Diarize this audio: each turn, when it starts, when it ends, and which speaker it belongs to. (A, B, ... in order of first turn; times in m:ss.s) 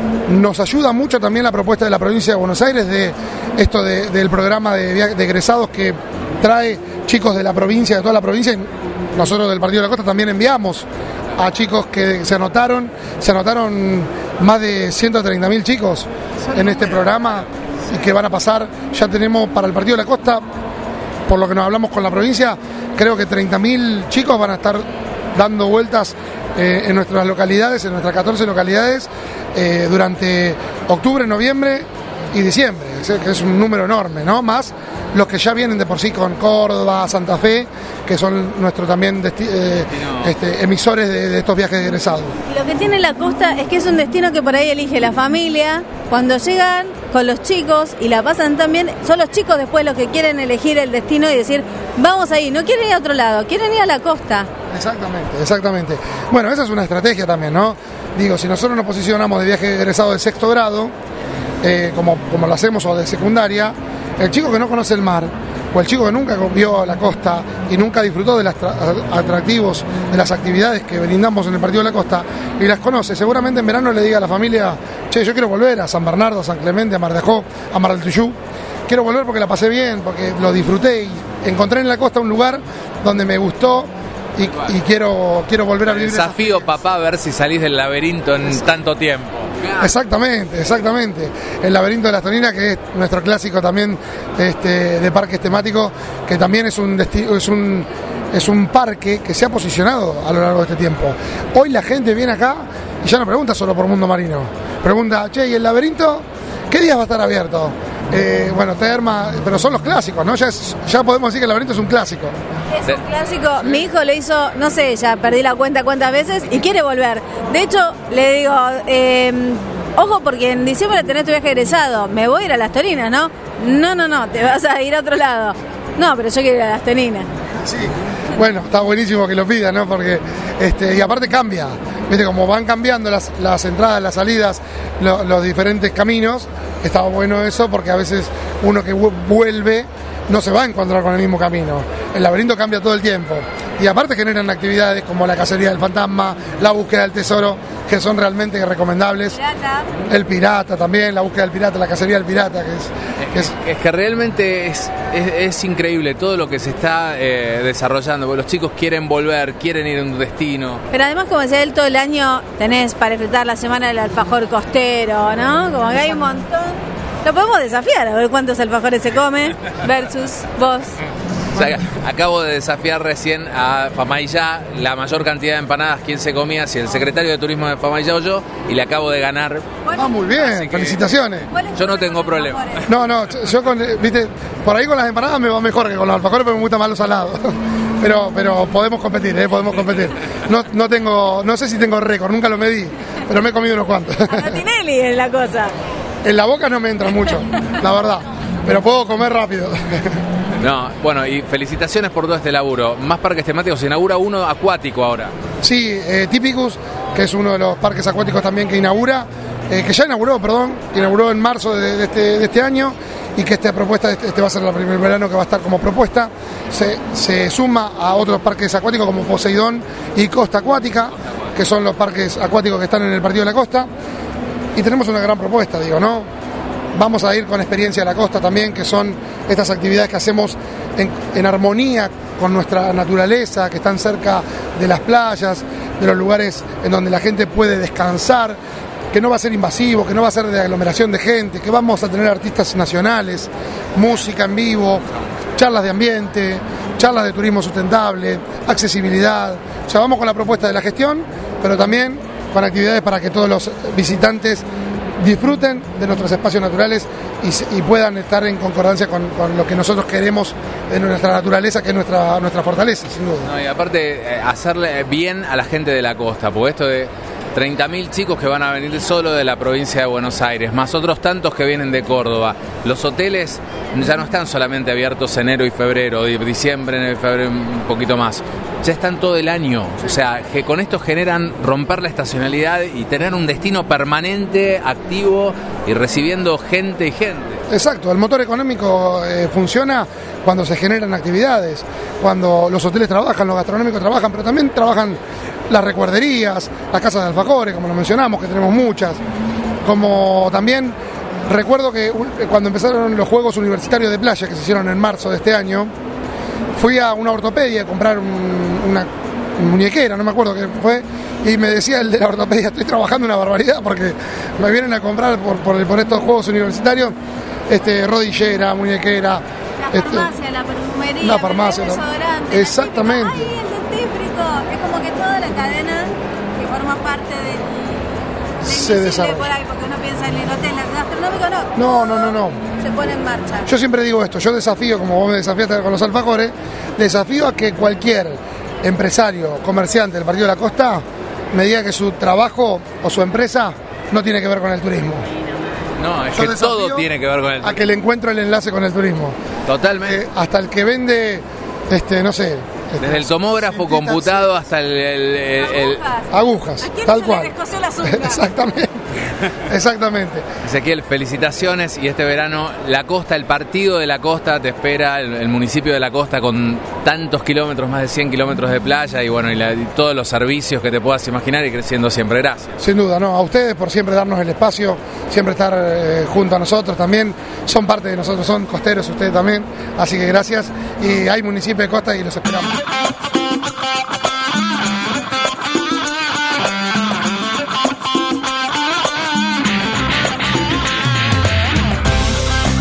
0:00.3-0:20.4 A
0:16.5-0:17.1 B
0:21.3-0:42.3 A
0:39.9-0:40.4 B
0:42.5-0:54.5 C
0:54.7-1:00.9 A
1:01.6-1:18.4 A
1:18.9-1:26.8 A
1:24.5-1:24.7 B
1:25.8-1:29.9 B
1:29.8-1:52.3 A
1:52.8-2:07.3 C
2:07.6-2:29.4 A
2:29.3-2:29.9 C
2:30.1-2:33.5 A
2:33.2-2:40.8 B
2:40.9-2:51.0 C
2:51.6-2:59.7 B
2:59.9-3:00.2 C
2:59.9-3:01.5 A
3:00.4-3:01.2 B
3:01.5-3:02.9 C
3:01.7-3:02.9 B
3:02.9-3:14.6 A
3:14.3-3:15.7 C
3:16.2-3:20.2 A
3:20.6-3:25.3 B
3:25.6-3:43.9 A
3:44.8-3:46.3 A
3:47.0-3:58.6 A
3:59.1-4:05.0 A
4:05.6-4:14.7 A
4:15.2-4:23.5 A
4:23.4-4:47.6 B
4:47.7-4:59.2 A
4:59.8-5:05.9 A
5:06.8-5:17.2 A
5:17.7-5:20.3 A
5:19.8-5:28.1 C
5:21.2-5:23.5 A
5:28.6-5:29.5 A
5:28.6-5:33.7 C
5:31.8-5:32.6 A
5:33.7-5:45.2 A
5:46.0-5:47.8 B
5:46.4-5:47.1 A
5:47.6-5:49.4 A
5:49.7-5:50.2 B
5:50.0-5:54.5 A
5:53.0-5:56.0 B
5:55.7-5:58.4 C
5:56.3-5:59.0 A
5:59.7-6:00.4 A
6:00.6-6:12.7 B
6:12.8-6:22.8 A